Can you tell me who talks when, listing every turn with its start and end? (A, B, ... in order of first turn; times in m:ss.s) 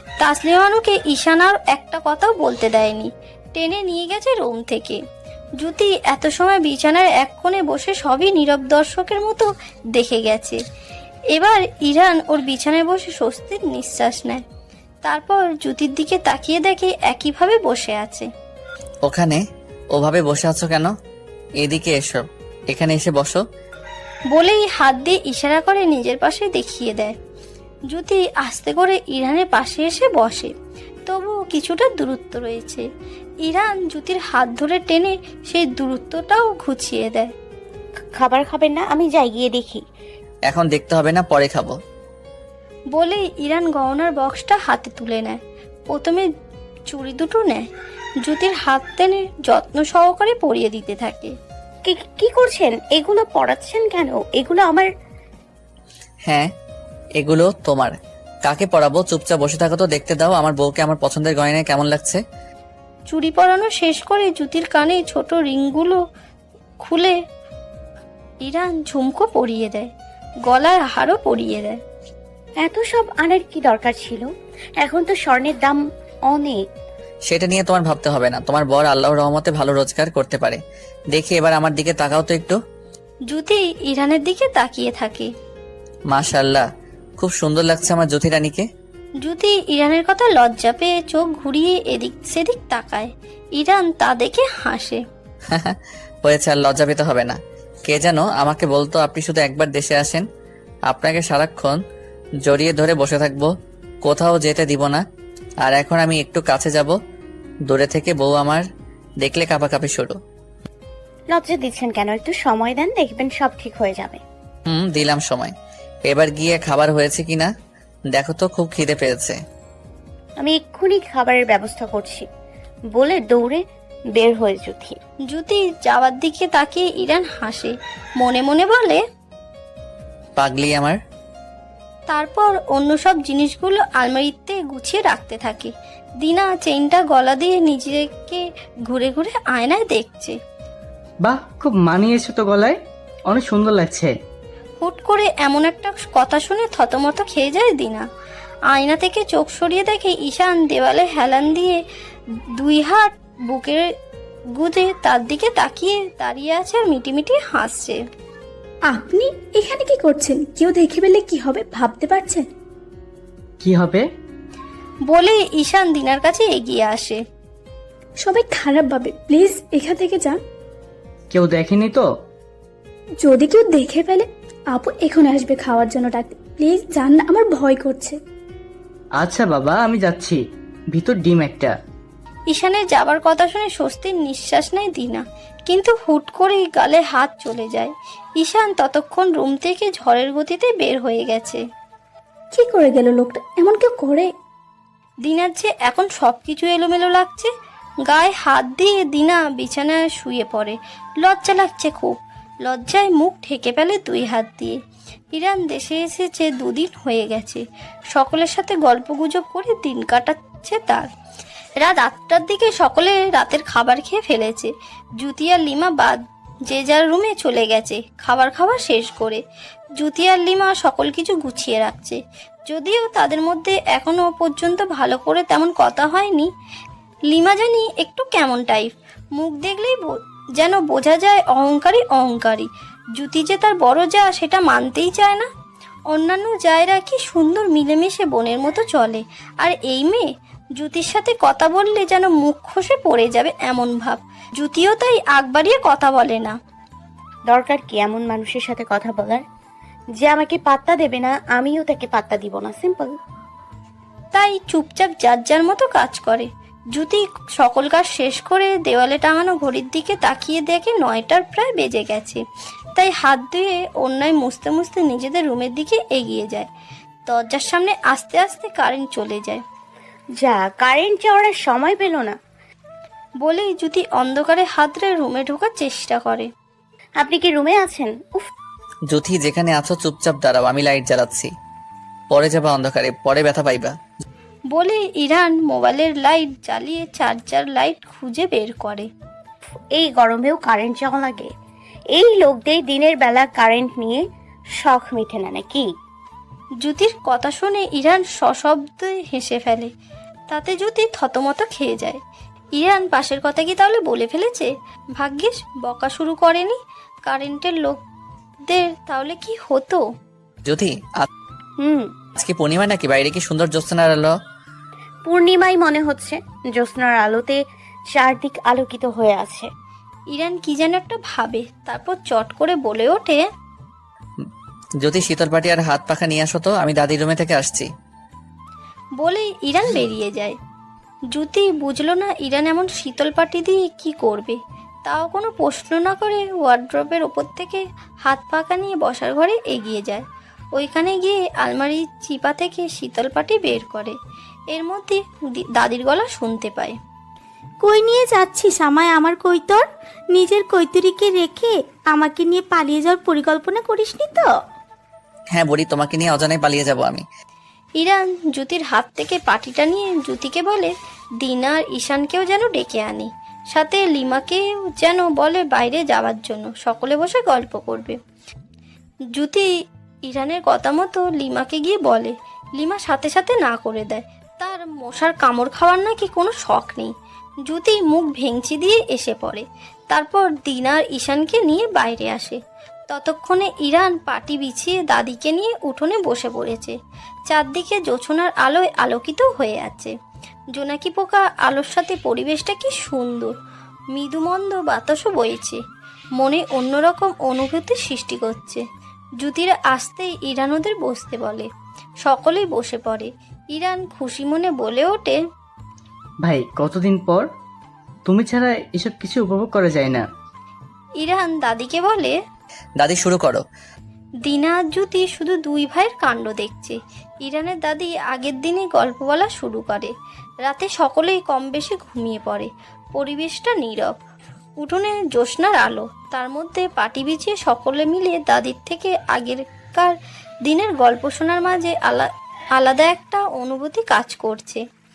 0:00.2-0:05.0 A
0:05.6-0:10.6 A
0:11.3-0:14.4 A
0:15.0-0:18.3 A
0:19.1-0:19.4 B
0:19.9-0:20.9 B
0:21.6-0:23.4 B
0:24.3-0:27.2 A
0:27.9-0:30.5 A
0:31.1-0:32.8 A
0:33.4-0:37.3 A
0:38.2-0:39.8 C
0:40.5-0:41.8 B
0:42.9-0:45.4 A
0:45.9-0:46.3 A
0:46.9-0:47.7 A
0:48.2-0:51.3 A
0:51.8-0:54.9 C
0:57.2-0:57.9 B
0:58.4-1:02.2 B
1:03.1-1:06.0 A
1:06.8-1:07.2 A
1:08.4-1:09.9 A
1:10.5-1:11.8 A
1:12.6-1:14.3 C
1:14.8-1:16.6 C
1:17.3-1:20.6 B
1:21.1-1:22.6 B
1:23.3-1:25.3 A
1:26.1-1:26.6 B
1:27.2-1:28.7 B
1:29.2-1:35.0 A
1:35.5-1:40.2 B
1:40.9-1:41.8 B
1:42.4-1:43.5 B
1:44.0-1:45.0 B
1:45.6-1:47.0 B
1:47.7-1:48.6 B
1:49.2-1:50.2 B
1:51.3-1:54.2 C
1:54.7-1:55.5 B
1:56.1-1:57.5 B
1:58.1-1:59.4 B
2:00.4-2:02.3 C
2:02.9-2:03.6 C
2:04.2-2:05.0 C
2:05.3-2:09.0 A
2:10.4-2:11.0 B
2:12.1-2:20.4 A
2:21.2-2:22.8 D
2:23.3-2:24.1 D
2:24.8-2:28.0 A
2:28.7-2:31.8 A
2:32.6-2:33.8 A
2:34.6-2:38.0 A
2:38.9-2:42.5 E
2:43.6-2:44.0 D
2:45.1-2:47.2 A
2:48.2-2:50.4 E
2:51.3-2:52.0 D
2:53.2-2:58.2 E
2:59.2-3:00.4 D
3:00.9-3:01.8 D
3:02.5-3:11.6 A
3:12.5-3:14.3 E
3:15.2-3:17.5 A
3:18.1-3:24.8 A
3:25.3-3:31.1 A
3:31.8-3:39.4 A
3:40.0-3:46.5 A
3:47.3-3:55.5 A
3:56.1-4:00.3 A
4:00.8-4:06.6 A
4:07.5-4:09.4 C
4:10.2-4:13.1 C
4:14.3-4:22.4 A
4:23.0-4:26.7 A
4:27.3-4:29.6 A
4:30.4-4:32.4 C
4:33.4-4:36.5 A
4:37.2-4:38.5 C
4:39.1-4:41.5 B
4:42.3-4:43.9 B
4:44.7-4:49.1 A
4:50.0-4:51.5 C
4:52.2-4:54.2 C
4:54.8-4:55.9 C
4:56.8-4:59.9 A
5:00.5-5:02.2 A
5:02.8-5:08.0 A
5:08.7-5:10.0 A
5:10.7-5:11.3 B
5:11.8-5:12.1 C
5:12.4-5:14.3 B
5:15.3-5:17.6 C
5:18.1-5:19.7 C
5:20.3-5:23.4 A
5:25.0-5:27.9 B
5:29.2-5:30.6 A
5:31.3-5:40.2 A
5:40.8-5:44.2 A
5:44.7-5:47.0 A
5:47.8-5:54.5 F
5:55.5-5:57.3 B
5:58.0-6:08.2 A
6:09.4-6:09.7 A
6:10.3-6:17.1 A
6:17.7-6:22.6 A
6:23.1-6:27.0 A
6:27.5-6:30.1 A
6:30.7-6:33.5 A
6:34.1-6:35.8 A
6:36.4-6:38.8 A
6:39.4-6:41.7 A
6:42.2-6:45.4 A
6:46.4-6:47.5 D
6:48.3-6:50.2 D
6:51.2-6:52.4 A
6:53.0-6:53.6 B
6:54.4-7:00.1 A
7:00.6-7:04.1 A
7:04.8-7:10.2 A
7:10.7-7:14.8 A